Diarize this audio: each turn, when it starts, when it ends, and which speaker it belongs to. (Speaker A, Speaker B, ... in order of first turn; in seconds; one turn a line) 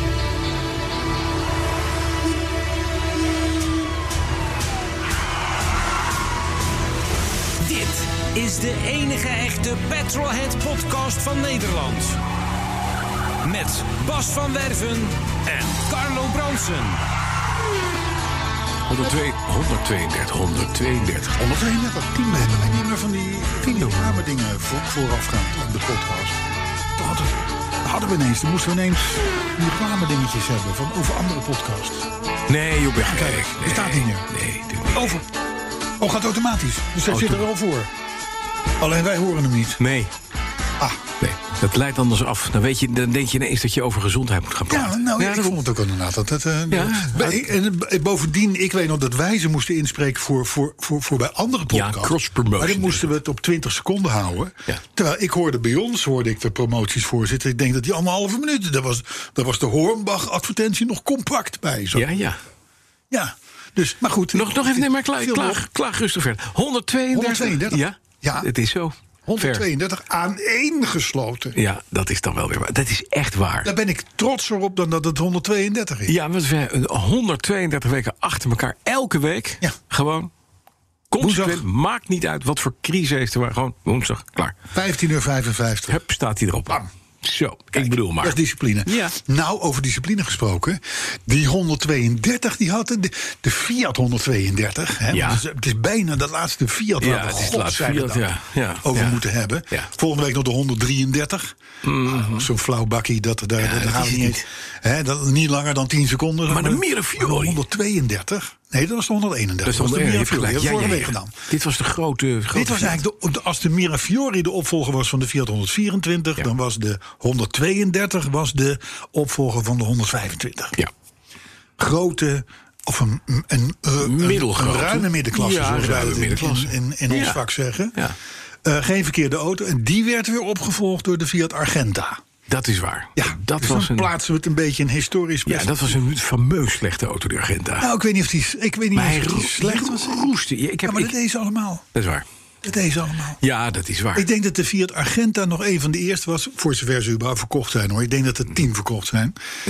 Speaker A: 7.6-12.2
Speaker A: 13.4-17.0
Speaker B: 18.9-21.4
Speaker C: 21.4-32.1
Speaker B: 23.8-24.1
Speaker B: 32.5-35.2
Speaker C: 33.0-34.3
Speaker C: 34.9-35.3
Speaker C: 36.0-37.9
Speaker B: 37.1-37.4
Speaker C: 38.8-39.8
Speaker B: 39.8-40.1
Speaker B: 41.2-45.6
Speaker C: 44.7-62.1
Speaker B: 46.7-47.5
Speaker B: 51.7-53.1
Speaker B: 61.9-62.4
Speaker C: 63.1-65.6
Speaker B: 64.3-69.6
Speaker C: 67.1-68.5
Speaker C: 69.2-71.6
Speaker B: 71.5-73.7
Speaker C: 73.6-76.1
Speaker B: 76.1-80.3
Speaker B: 81.1-84.5
Speaker C: 81.2-81.6
Speaker C: 84.7-86.0
Speaker B: 85.9-89.1
Speaker C: 87.7-98.2
Speaker B: 95.1-95.4
Speaker B: 97.0-99.9
Speaker C: 98.8-111.3
Speaker B: 101.8-102.5
Speaker B: 103.6-104.4
Speaker B: 106.5-107.6
Speaker B: 109.6-113.0
Speaker C: 112.5-120.8
Speaker C: 121.8-128.0
Speaker B: 124.0-127.4
Speaker C: 128.6-132.2
Speaker B: 132.5-134.1
Speaker C: 133.2-135.9
Speaker B: 135.5-137.9
Speaker C: 137.8-140.3
Speaker B: 138.9-141.1
Speaker C: 140.8-141.8
Speaker B: 141.9-142.2
Speaker C: 142.6-143.4
Speaker B: 143.4-144.2
Speaker C: 144.1-149.3